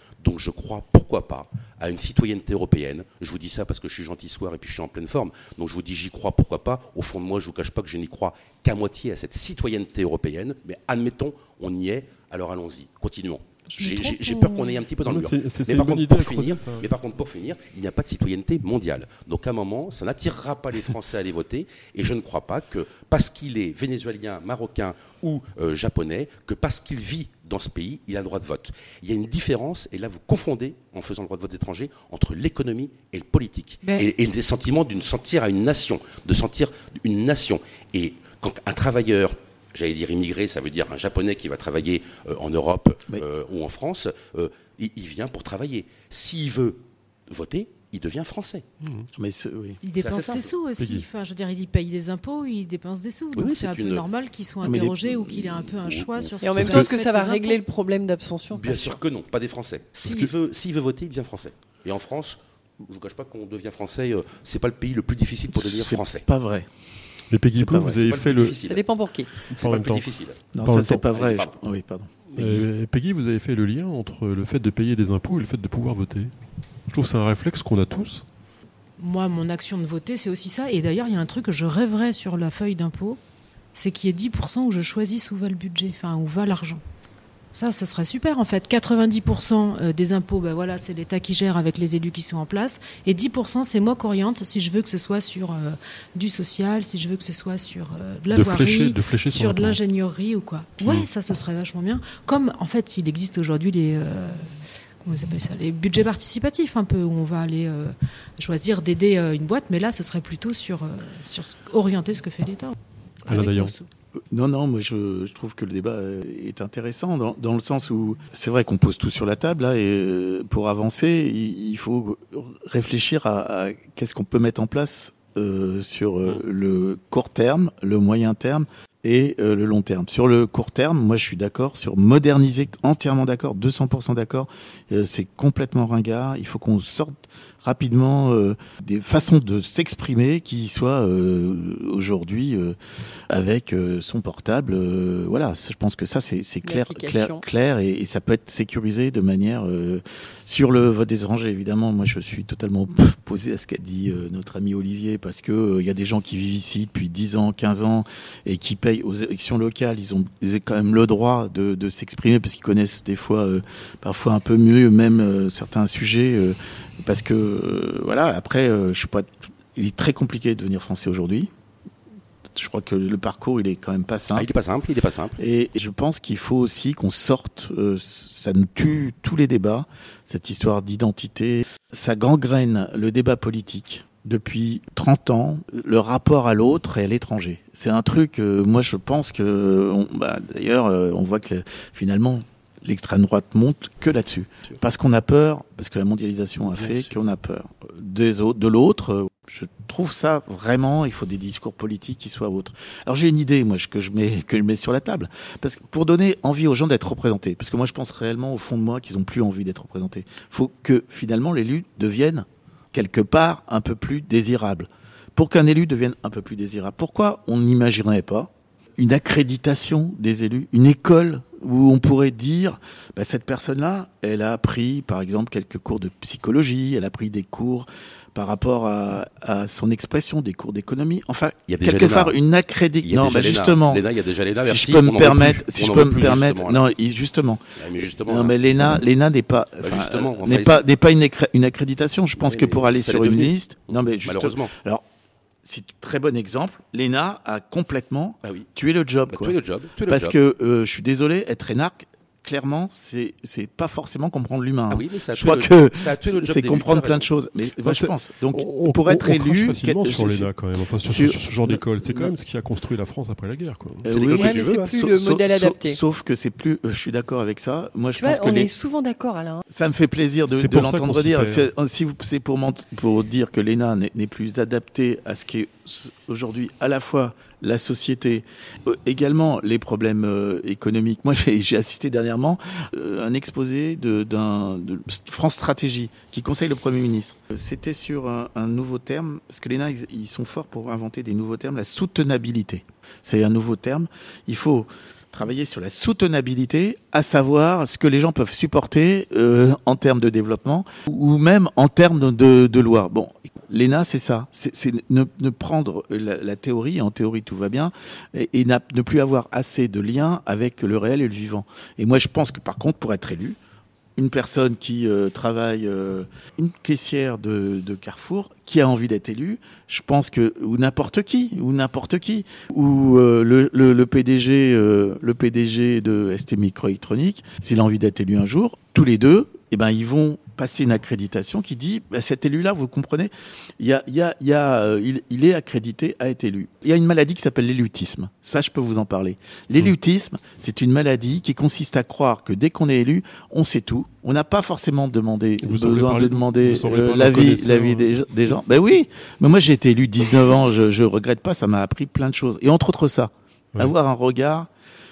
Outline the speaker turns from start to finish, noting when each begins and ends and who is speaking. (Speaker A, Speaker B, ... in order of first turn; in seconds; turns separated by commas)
Speaker A: 0.2-48.7, Speaker B: 13.7-14.9, Speaker C: 15.0-16.9, Speaker C: 48.8-49.1, Speaker D: 49.2-49.8, Speaker B: 49.8-57.6, Speaker A: 50.0-50.5, Speaker C: 50.8-51.1, Speaker A: 53.4-54.0, Speaker D: 54.6-55.7, Speaker A: 55.8-56.8, Speaker E: 56.4-59.0, Speaker A: 58.5-66.3, Speaker D: 65.6-66.7, Speaker C: 67.3-68.6, Speaker D: 67.6-68.0, Speaker A: 67.7-68.8, Speaker E: 68.6-69.3, Speaker A: 69.4-70.5, Speaker C: 69.6-70.1, Speaker D: 70.5-72.7, Speaker C: 70.6-71.0, Speaker A: 71.1-71.5, Speaker C: 72.3-76.3, Speaker C: 76.9-78.2, Speaker B: 79.0-83.2, Speaker B: 83.7-86.8, Speaker B: 87.5-113.9, Speaker C: 98.3-99.8, Speaker C: 113.3-113.7, Speaker D: 114.3-142.8, Speaker D: 143.3-171.5, Speaker E: 146.7-147.4, Speaker D: 172.5-174.5, Speaker A: 174.3-175.4, Speaker D: 175.4-234.0, Speaker C: 196.7-197.1, Speaker A: 231.7-232.4, Speaker A: 233.1-236.8, Speaker D: 234.6-245.0, Speaker A: 237.8-238.6, Speaker A: 239.8-240.8, Speaker A: 242.4-243.6, Speaker A: 244.2-244.7, Speaker D: 245.6-260.5, Speaker A: 249.3-250.3, Speaker A: 254.9-257.3, Speaker C: 257.8-264.1, Speaker D: 261.1-262.3, Speaker D: 264.1-268.7, Speaker A: 264.1-264.9, Speaker E: 264.3-266.0, Speaker E: 268.2-269.6, Speaker D: 269.7-313.6, Speaker C: 270.5-271.7, Speaker D: 314.2-354.7, Speaker C: 345.6-348.5